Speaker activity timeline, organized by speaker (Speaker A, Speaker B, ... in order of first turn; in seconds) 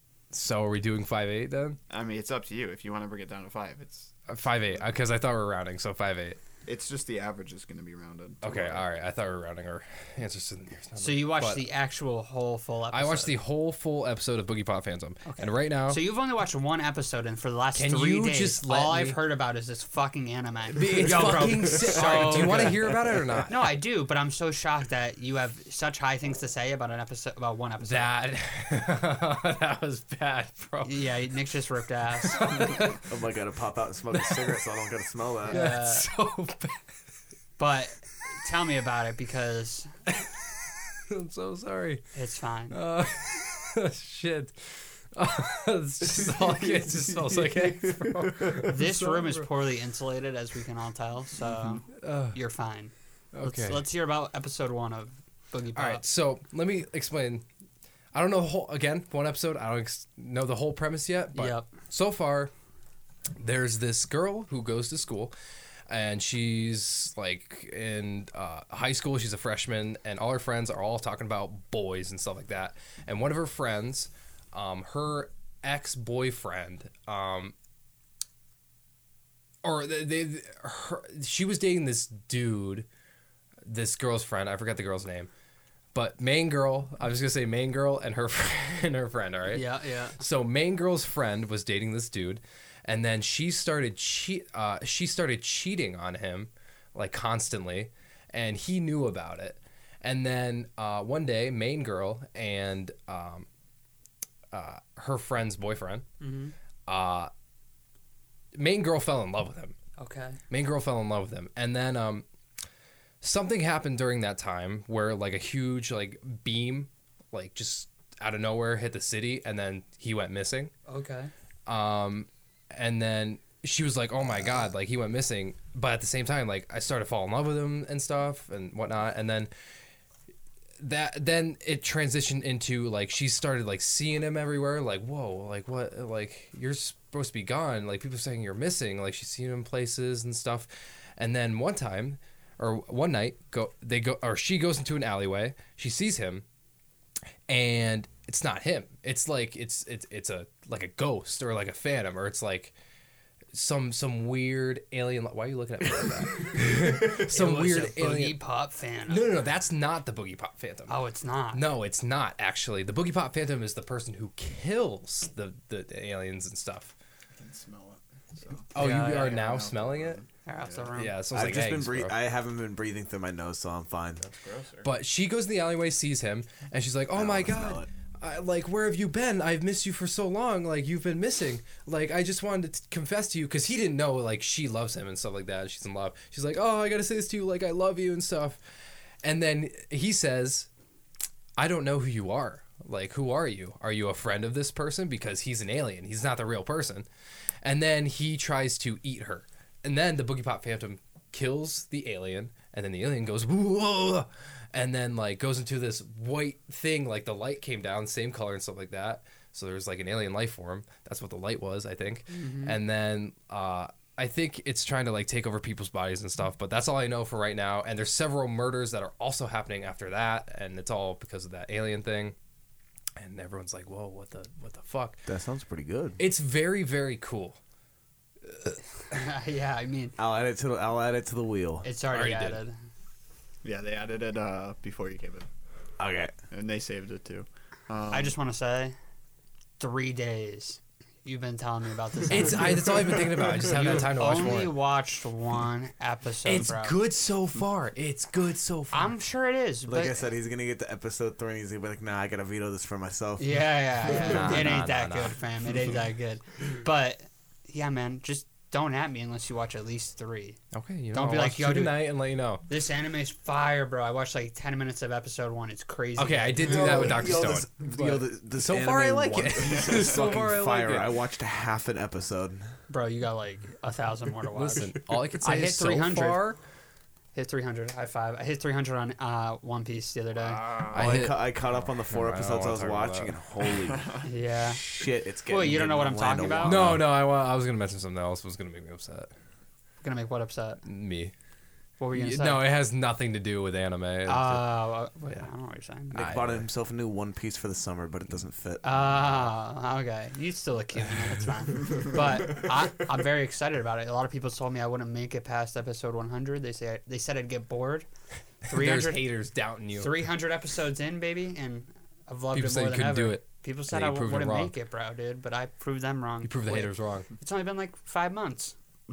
Speaker A: 0.3-1.8, 4.3-6.4, 8.4-11.6, 12.9-16.0, 17.8-19.2, 20.7-23.7, 27.8-31.1, 32.2-33.0, 34.1-34.6, 35.5-36.8, 41.1-42.0, 42.7-49.5, 51.9-52.4, 53.3-53.9, 55.8-57.5, 58.1-62.5, 63.4-65.3, 65.9-77.5, 79.6-82.9, 83.7-85.3, 85.9-89.7, 90.2-103.5, 104.5-106.1, 106.9-107.3, 108.5-109.8, 110.5-112.3, 113.2-120.7, 121.7-129.5, 130.8-146.4, 147.5-152.7, 153.5-158.4, 159.1-161.0, 161.5-166.9, 168.7-170.2, 170.9-172.1, 174.8-188.6, 189.2-190.7, 191.6-197.1, 197.6-222.3, 223.2-225.2, 226.2-227.6, 228.5-228.8, 232.1-232.6, 242.3-244.8, 246.4-249.1, 254.1-255.4, 260.7-262.6, 266.2-271.1, 274.6-276.6, 280.9-283.3, 286.6-289.3, 290.9-291.3, 292.1-294.6, 296.1-296.6, 308.7-310.1, 312.5-314.7, 316.4-317.3
Speaker B: 1.9-4.2, 6.7-8.9, 167.3-170.9, 174.2-174.9, 233.6-235.5, 236.5-238.4, 280.5-281.3, 283.8-284.2
Speaker C: 11.0-13.3, 15.3-22.9, 23.5-28.1, 30.9-32.8, 35.5-36.1, 37.6-39.9, 42.1-42.8, 48.6-52.9, 53.4-56.0, 61.4-61.7, 89.5-90.2, 106.2-106.5, 110.0-110.4, 120.9-121.3, 157.2-159.3, 160.9-161.6, 168.8-169.4, 170.5-171.2, 212.3-212.8, 229.1-230.2, 231.8-232.8, 238.1-239.0, 239.8-247.0, 248.9-250.2, 253.4-260.6, 261.1-262.1, 262.7-267.3, 272.9-276.4, 277.3-280.7, 284.2-284.9, 285.5-286.8, 290.0-290.8, 292.0-292.6, 294.3-296.2, 298.8-308.1, 308.6-309.3, 310.0-318.8
Speaker D: 20.9-23.4, 33.0-35.7, 46.0-48.8, 171.3-174.3, 177.1-177.9, 225.3-226.2, 230.2-231.9, 236.0-236.3, 243.1-243.9, 249.9-254.8, 266.6-272.7, 280.9-287.1, 296.1-299.5